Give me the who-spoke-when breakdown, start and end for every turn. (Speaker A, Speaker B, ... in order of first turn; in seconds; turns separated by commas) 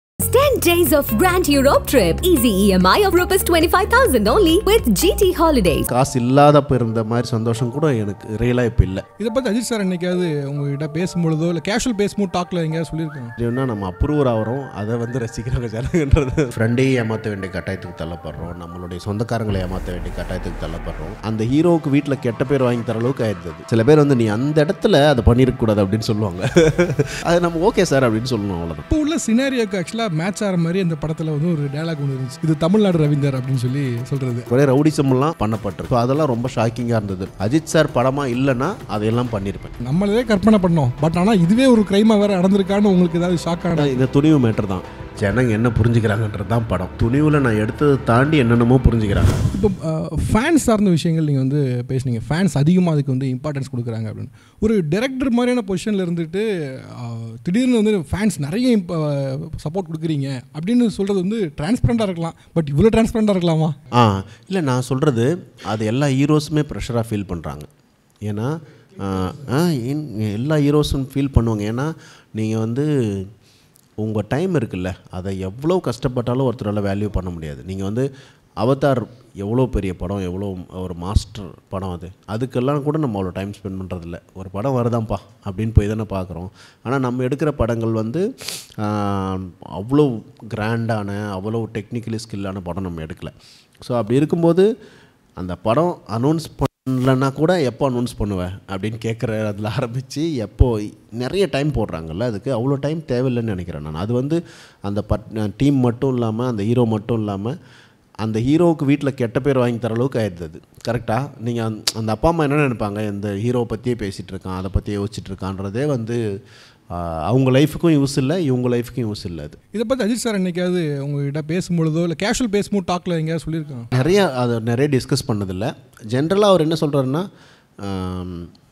Speaker A: 0.2-5.8, Speaker B: 5.9-9.0, Speaker C: 9.2-13.3, Speaker B: 13.4-28.8, Speaker C: 28.9-34.5, Speaker B: 34.5-39.7, Speaker C: 39.8-44.0, Speaker B: 43.8-49.5, Speaker C: 49.5-63.8, Speaker B: 63.9-67.7, Speaker B: 68.2-73.3, Speaker B: 74.0-78.1, Speaker B: 78.6-93.3, Speaker B: 93.8-94.7, Speaker B: 95.4-107.5, Speaker B: 108.2-116.2, Speaker B: 116.9-119.6, Speaker C: 119.7-123.9, Speaker B: 123.9-127.3, Speaker B: 127.8-128.5